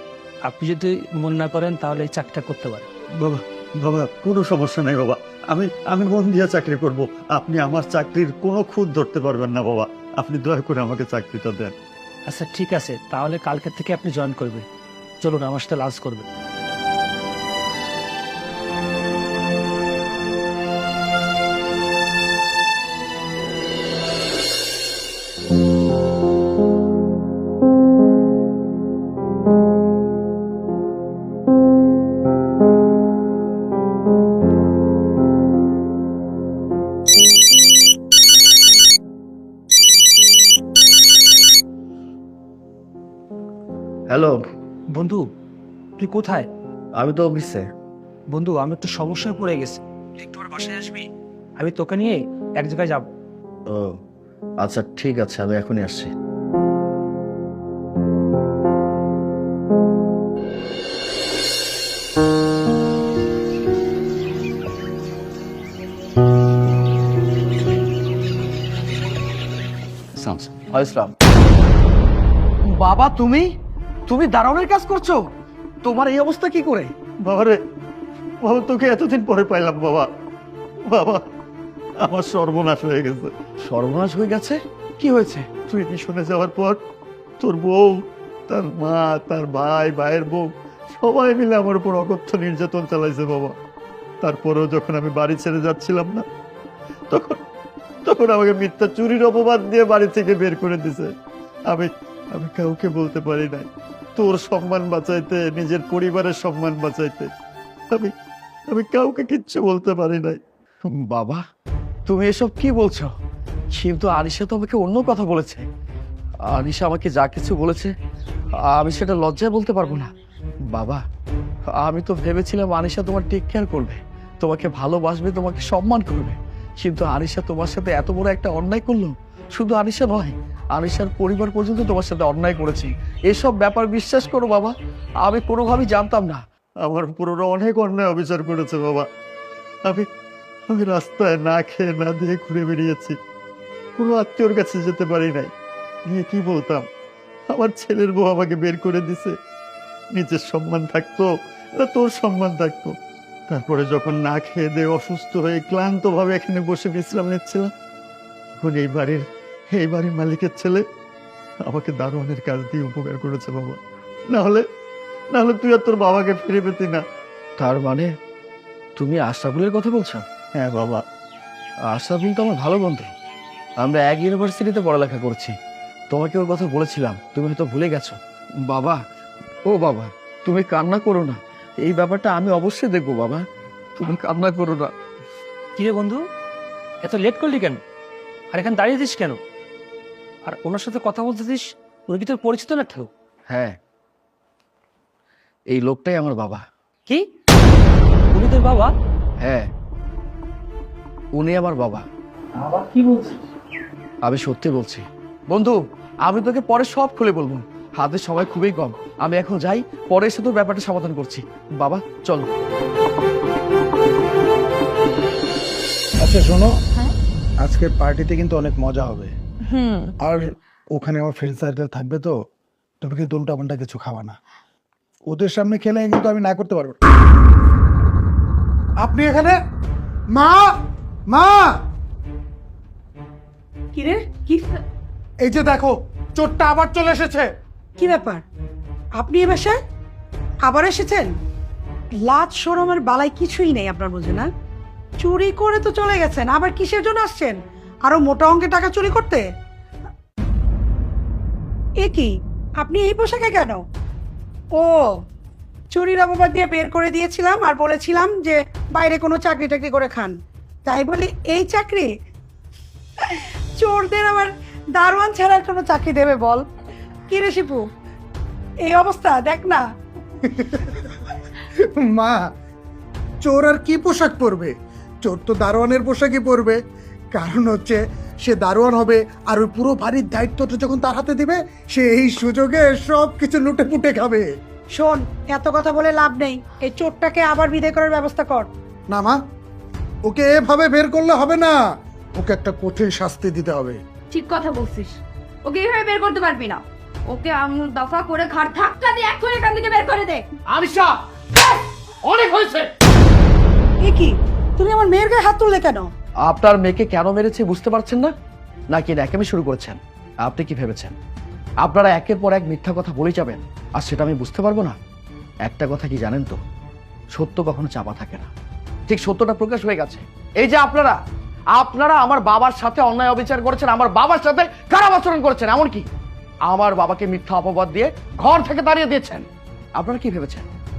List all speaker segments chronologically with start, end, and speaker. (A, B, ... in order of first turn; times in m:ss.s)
0:00.4-0:02.8 A
0:03.2-0:11.7 B
0:12.3-0:14.6 A
0:15.2-0:16.2 A
0:44.1-0:44.4 C
0:44.9-0:45.3 A
0:46.0-0:46.5 A
0:47.0-0:47.6 C
0:48.3-0:53.1 A
0:53.7-0:54.0 C
0:54.6-0:56.1 C
1:10.3-1:11.1 C
1:12.8-1:13.5 C
1:14.1-1:15.2 C
1:15.8-1:16.9 C
1:17.2-1:17.6 B
1:18.4-1:20.1 B
1:20.9-1:21.2 B
1:22.0-1:23.3 B
1:23.6-1:25.5 C
1:25.7-1:26.8 B
1:27.4-1:27.9 B
1:28.5-1:33.5 B
1:34.2-1:36.2 B
1:37.1-1:37.4 B
1:38.0-1:41.1 B
1:41.7-1:47.3 B
1:48.7-1:50.4 B
1:51.0-1:51.4 C
1:52.1-1:53.1 C
1:53.7-1:55.6 C
1:56.5-1:57.9 C
1:58.7-2:00.1 C
2:00.7-2:01.0 C
2:01.8-2:16.4 C
2:16.8-2:19.1 B
2:20.7-2:23.2 B
2:24.0-2:25.5 B
2:26.1-2:26.8 B
2:27.5-2:29.3 B
2:30.1-2:32.9 B
2:33.5-2:37.7 B
2:38.6-2:40.8 B
2:41.6-2:43.8 B
2:44.3-2:44.6 B
2:45.3-2:47.0 B
2:47.6-2:48.1 C
2:49.0-2:50.2 C
2:50.5-2:51.0 B
2:51.9-2:53.1 C
2:53.8-2:55.5 C
2:56.1-2:58.2 C
2:58.7-2:59.0 C
2:59.7-3:03.4 C
3:04.0-3:04.9 C
3:05.8-3:06.2 A
3:07.0-3:07.8 A
3:08.5-3:09.4 A
3:10.4-3:13.1 A
3:13.5-3:13.8 C
3:15.7-3:16.6 C
3:18.3-3:18.9 A
3:19.4-3:19.7 C
3:21.4-3:22.0 C
3:22.7-3:23.3 A
3:24.2-3:32.5 C
3:36.2-3:36.8 D
3:37.6-3:39.3 D
3:39.7-3:40.1 E
3:40.2-3:42.4 D
3:43.0-3:44.4 D
3:45.3-3:47.0 D
3:49.0-3:49.6 D
3:50.3-3:50.7 D
3:51.3-3:51.7 D
3:53.9-3:54.8 F
3:55.4-3:57.5 D
3:58.0-3:58.4 F
3:59.2-3:59.8 F
4:00.6-4:01.3 F
4:02.2-4:04.5 F
4:05.2-4:09.4 F
4:12.0-4:12.3 F
4:12.8-4:13.8 F
4:14.8-4:15.1 F
4:15.9-4:22.1 F
4:23.2-4:26.6 F
4:27.3-4:27.8 F
4:28.8-4:29.8 F
4:30.4-4:31.1 D
4:31.8-4:32.4 D
4:33.4-4:36.8 D
4:37.3-4:44.5 D
4:44.9-4:48.7 F
4:49.1-4:49.4 D
4:50.2-4:51.8 D
4:52.4-4:54.0 D
4:54.3-5:00.4 E
5:00.7-5:01.2 C
5:02.2-5:02.9 C
5:04.0-5:06.1 F
5:06.5-5:08.3 C
5:08.9-5:11.1 C
5:11.8-5:15.0 C
5:15.6-5:16.6 C
5:17.3-5:18.5 C
5:19.1-5:21.2 C
5:21.7-5:26.1 C
5:26.7-5:29.4 C
5:30.0-5:30.6 C